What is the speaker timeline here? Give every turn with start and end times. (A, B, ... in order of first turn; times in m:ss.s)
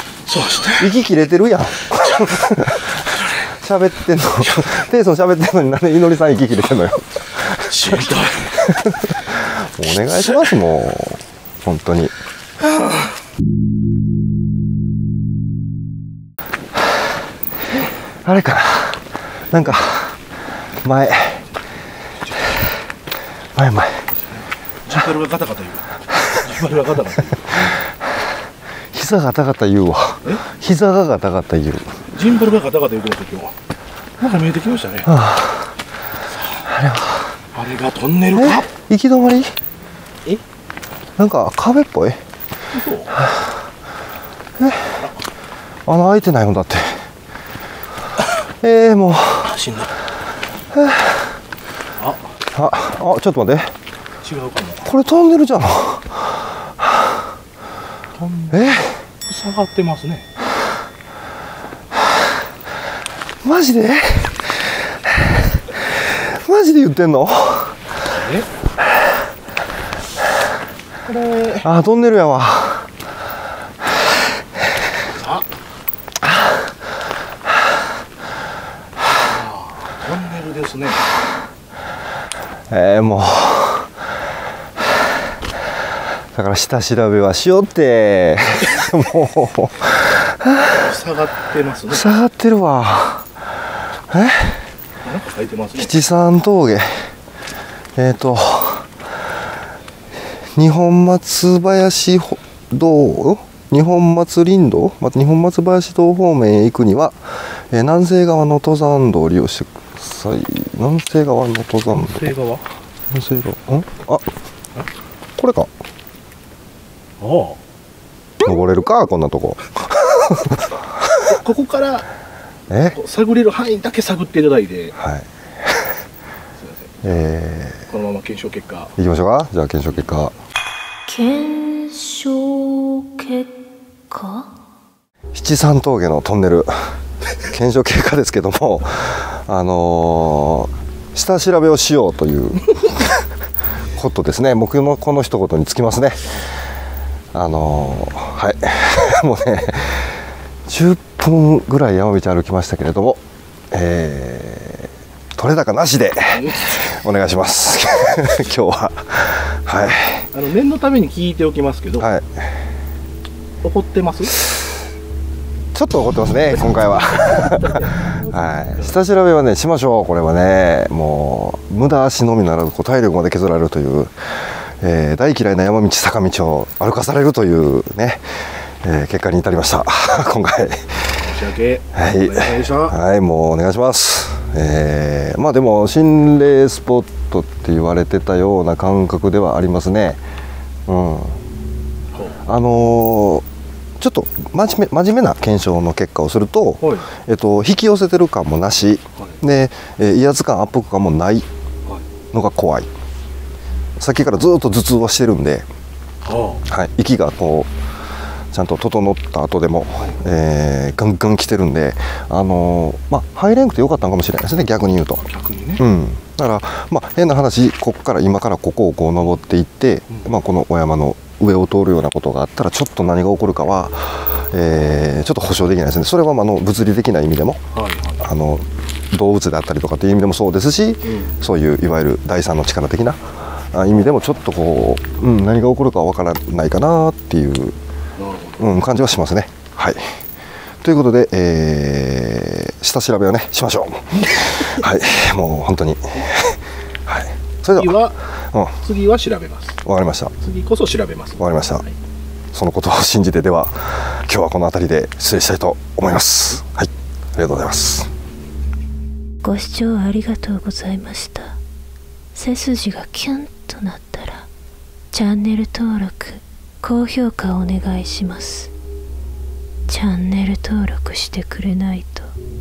0:00.3-0:00.9 A
0:00.8-0:12.1 B
0:07.6-0:08.6 A
0:12.7-0:13.0 A
0:18.2-0:20.2 B
0:20.8-0:21.5 B
0:23.5-0:24.1 B
0:24.3-0:27.7 A
0:28.9-0:32.0 B
0:32.1-0:33.5 A
0:34.2-0:35.2 A
0:35.0-0:35.7 B
0:36.3-0:36.7 A
0:36.7-0:37.3 B
0:37.5-0:38.7 A
0:38.3-0:39.6 B
0:41.2-0:42.2 B
0:42.7-0:43.2 A
0:44.6-0:45.0 B
0:45.8-0:47.1 B
0:48.6-0:49.5 B
0:49.4-0:49.9 A
0:50.7-0:51.3 B
0:52.0-0:52.4 A
0:52.5-0:53.7 B
0:54.2-0:54.9 A
0:54.8-0:57.2 B
0:58.1-1:00.2 A
0:58.5-0:59.0 B
1:03.4-1:07.8 B
1:08.1-1:08.5 A
1:11.0-1:11.7 A
1:11.6-1:12.9 B
1:15.1-1:15.5 A
1:19.2-1:21.1 A
1:22.7-1:23.9 B
1:26.3-1:30.8 B
1:30.7-1:32.1 A
1:31.9-1:33.3 B
1:34.1-1:34.6 B
1:35.0-1:36.0 A
1:35.8-1:37.1 B
1:38.0-1:38.9 B
1:40.5-1:52.3 B
1:51.9-1:52.6 A
1:53.1-1:54.2 B
1:55.4-1:55.7 B
1:57.2-1:57.6 A
1:58.4-2:01.1 B
2:01.2-2:02.1 A
2:02.7-2:03.0 B
2:02.9-2:04.9 A
2:05.0-2:06.0 B
2:06.6-2:07.1 A
2:07.0-2:07.9 B
2:07.9-2:08.9 A
2:09.0-2:10.3 B
2:11.1-2:13.6 C
2:14.1-2:14.5 C
2:15.3-2:23.2 B
2:24.0-2:26.3 B
2:27.3-2:33.2 B
2:33.7-2:40.3 B
2:36.3-2:37.0 A
2:40.3-2:42.1 A
2:42.0-2:42.5 B
2:43.6-2:44.4 A
2:45.7-3:01.1 B
2:47.2-2:48.9 A
3:01.2-3:03.0 A
3:01.9-3:10.2 B
3:10.9-3:11.4 B
3:12.1-3:12.4 A
3:12.4-3:13.4 B
3:14.0-3:21.4 B
3:16.8-3:17.1 A
3:22.3-3:22.9 B
3:24.0-3:25.6 B
3:26.2-3:26.6 A
3:26.7-3:27.7 B
3:28.5-3:35.2 B
3:35.2-3:35.8 A
3:35.8-3:47.6 B
3:47.7-3:48.2 A
3:48.2-3:57.8 B
3:51.0-3:51.4 A
3:58.2-3:58.7 A
3:58.6-4:00.2 B
4:00.8-4:08.0 B
4:04.4-4:04.7 A
4:07.7-4:08.2 A
4:08.5-4:08.8 B
4:08.8-4:09.8 A
4:09.8-4:10.4 B
4:10.4-4:12.0 A
4:11.4-4:11.8 B
4:12.5-4:18.1 B
4:19.4-4:21.6 C
4:22.3-4:24.5 C
4:25.1-4:28.7 C
4:29.9-4:32.3 C